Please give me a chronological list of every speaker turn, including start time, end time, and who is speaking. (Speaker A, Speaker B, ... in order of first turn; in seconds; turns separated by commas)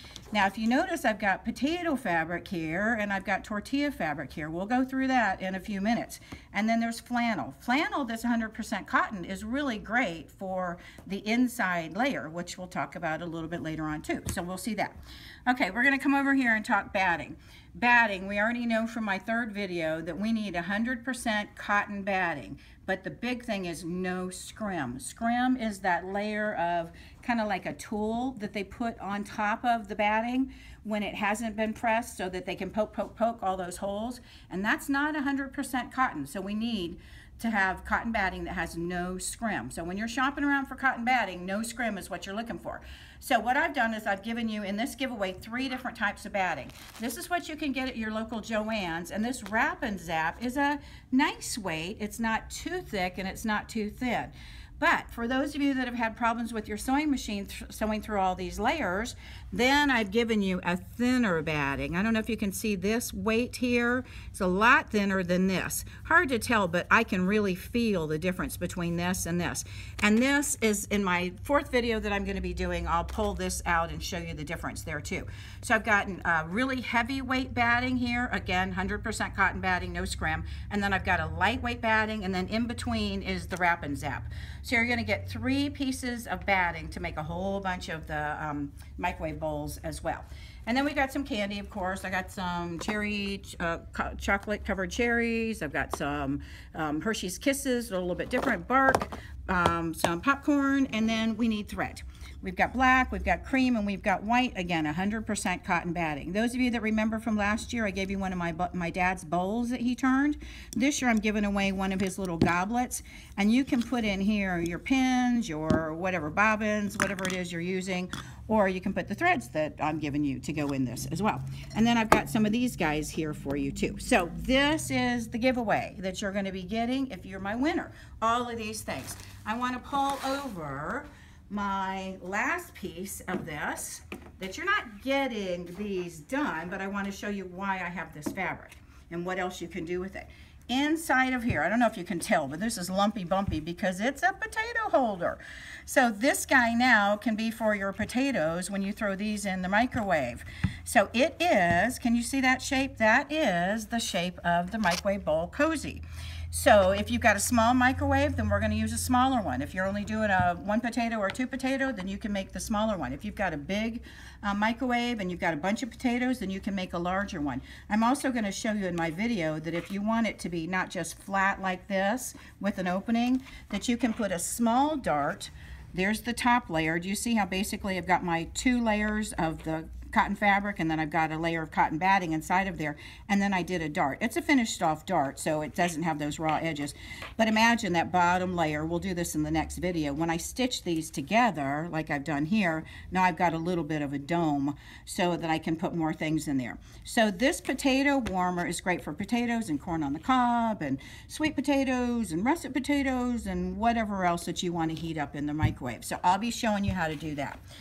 Speaker A: 0.3-207.6